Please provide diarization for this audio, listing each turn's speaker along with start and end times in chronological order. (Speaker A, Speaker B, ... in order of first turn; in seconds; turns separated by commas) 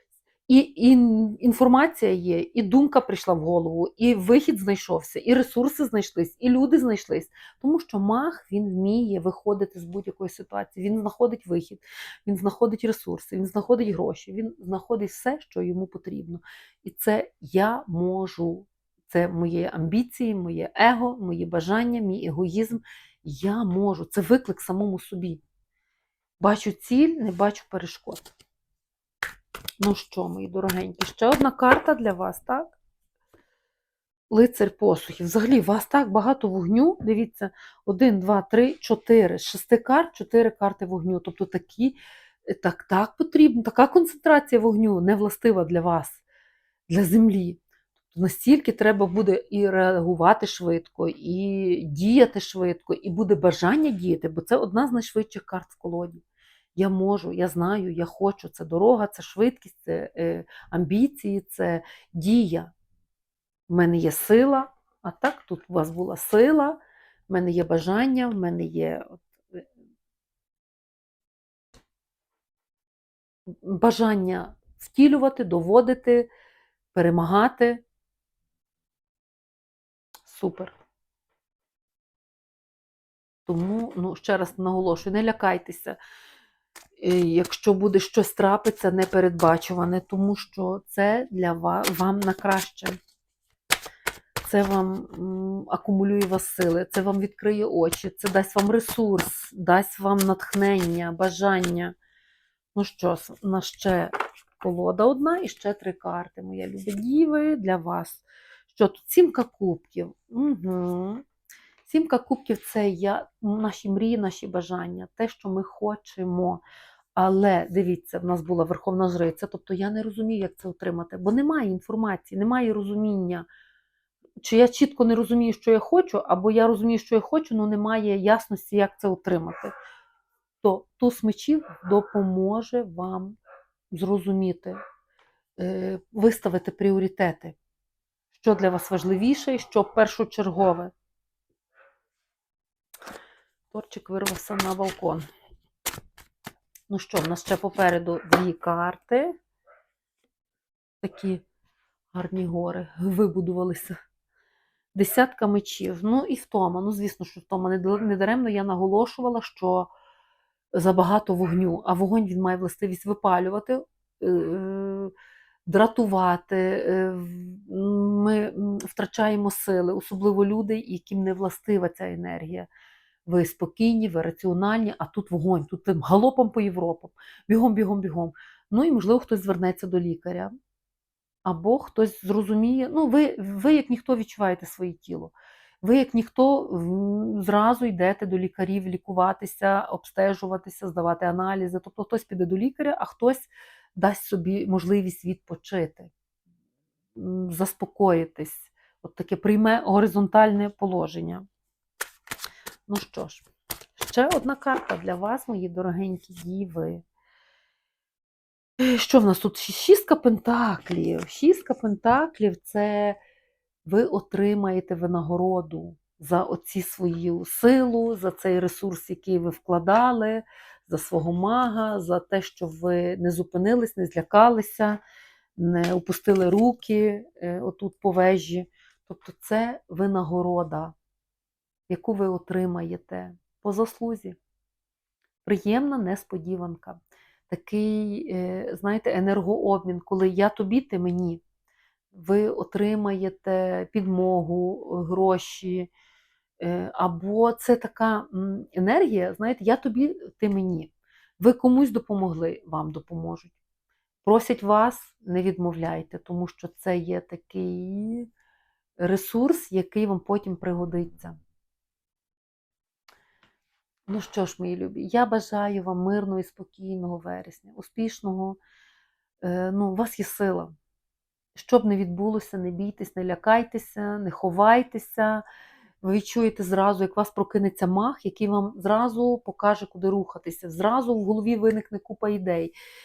Speaker A: 0.5-25.4, Speaker A: 26.4-28.3, Speaker A: 29.8-32.7, Speaker A: 34.3-46.2, Speaker A: 46.9-56.2, Speaker A: 56.8-62.7, Speaker A: 63.7-66.8, Speaker A: 67.3-69.6, Speaker A: 73.6-76.3, Speaker A: 76.9-77.8, Speaker A: 80.2-80.8, Speaker A: 83.5-86.0, Speaker A: 87.0-93.0, Speaker A: 94.4-101.9, Speaker A: 102.7-111.2, Speaker A: 111.8-116.6, Speaker A: 117.2-123.5, Speaker A: 124.4-129.7, Speaker A: 130.6-133.4, Speaker A: 133.9-134.8, Speaker A: 135.6-137.6, Speaker A: 138.3-140.9, Speaker A: 143.7-145.2, Speaker A: 146.9-149.3, Speaker A: 151.0-151.4, Speaker A: 152.1-154.0, Speaker A: 154.9-159.9, Speaker A: 160.7-165.1, Speaker A: 165.7-172.7, Speaker A: 173.2-180.5, Speaker A: 181.4-196.1, Speaker A: 197.1-201.4, Speaker A: 202.9-207.0, Speaker A: 208.8-213.2, Speaker A: 213.8-225.0, Speaker A: 225.6-230.9, Speaker A: 231.9-234.4, Speaker A: 235.4-241.4, Speaker A: 242.1-245.9, Speaker A: 246.6-253.5, Speaker A: 254.2-258.3, Speaker A: 259.0-261.4, Speaker A: 264.1-268.6, Speaker A: 269.4-270.7, Speaker A: 271.5-275.4, Speaker A: 276.0-282.7